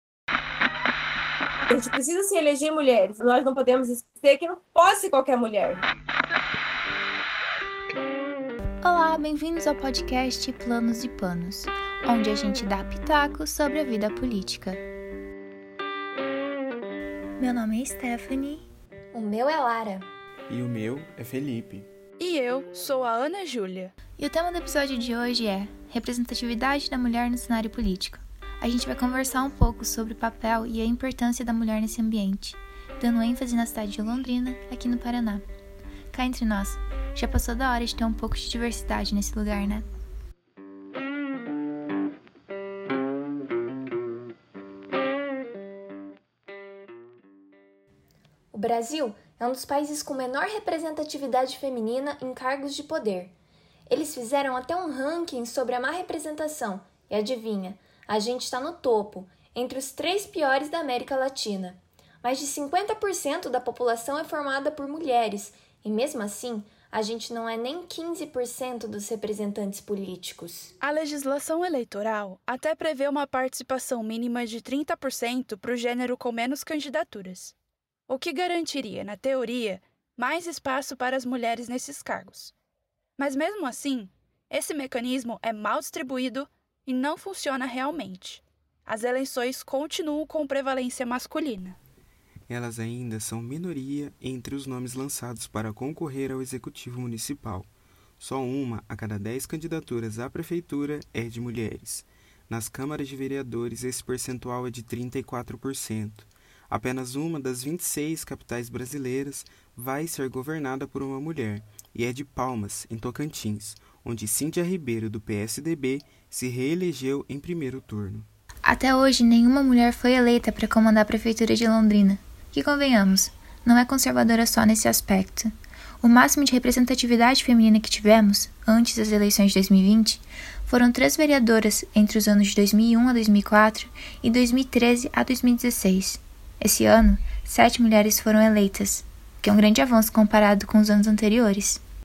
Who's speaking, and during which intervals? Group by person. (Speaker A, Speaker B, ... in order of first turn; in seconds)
Speaker A: 1.7-5.8
Speaker B: 8.8-14.8, 17.4-18.7, 24.2-35.4, 36.1-39.8, 118.6-141.8
Speaker C: 19.1-20.1, 48.5-53.3, 53.9-70.7
Speaker D: 20.5-21.9, 92.5-118.3
Speaker E: 22.2-23.9, 70.8-77.5, 78.1-82.5, 83.2-91.8